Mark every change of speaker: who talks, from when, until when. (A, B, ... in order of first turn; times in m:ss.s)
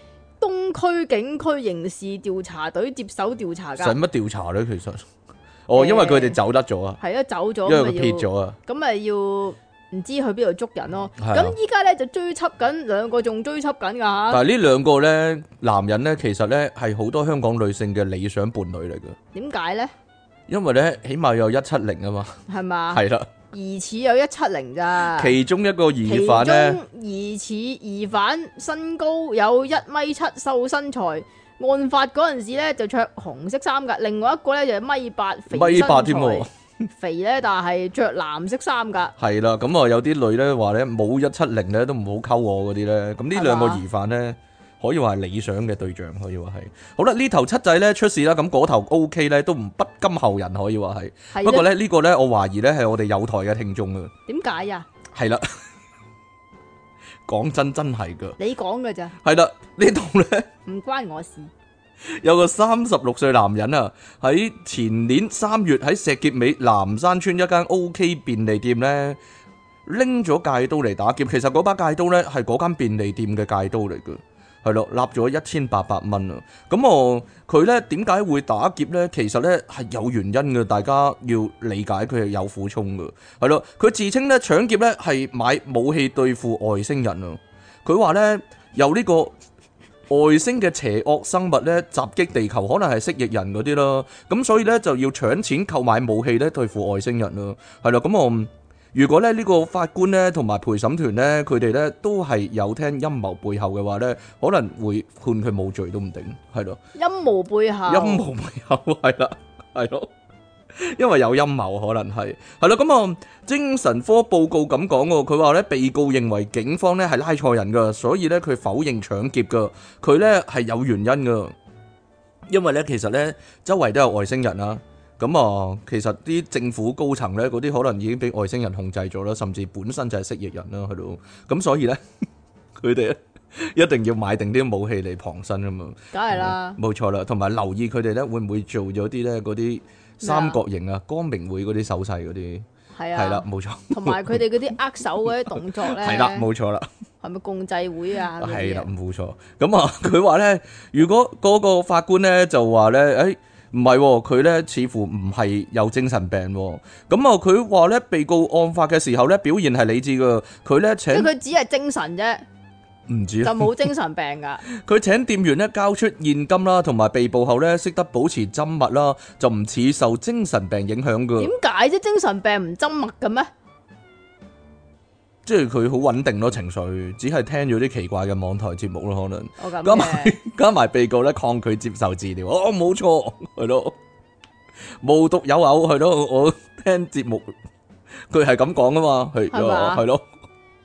0:00.4-0:04.0 A
0:03.8-0:05.0 B
0:05.7-0:07.0 B
0:05.8-0:06.4 A
0:07.0-0:14.4 A
0:07.7-0:08.6 B
0:11.2-0:11.6 B
0:14.3-0:19.2 B
0:19.3-0:19.9 A
0:20.5-0:23.3 B
0:22.5-0:25.4 A
0:25.2-0:26.8 B
0:26.0-0:36.5 A
0:35.5-0:36.9 B
0:37.0-0:39.1 A
0:39.2-0:54.1 B
0:43.3-0:43.8 A
0:51.3-0:51.7 A
0:54.3-0:54.9 A
0:55.2-0:55.5 B
0:57.3-0:58.4 B
0:58.4-0:59.2 A
0:59.2-1:00.5 B
1:00.7-1:01.5 A
1:02.1-1:09.2 B
1:09.9-1:29.3 B
1:30.1-1:46.8 B
1:47.0-1:48.3 A
1:47.9-1:50.1 B
1:50.8-2:01.5 B
2:02.5-2:12.0 B
2:12.8-2:24.4 B
2:16.1-2:16.8 A
2:20.2-2:20.6 A
2:23.0-2:26.5 A
2:25.9-2:26.9 B
2:27.2-2:28.9 A
2:28.4-2:41.3 B
2:41.1-2:42.4 A
2:43.1-2:43.8 B
2:43.4-2:44.6 A
2:44.6-2:51.5 B
2:51.4-2:53.5 A
2:55.5-3:04.0 B
2:59.6-3:00.4 A
3:05.0-3:07.5 B
3:08.3-3:10.2 B
3:09.5-3:10.0 A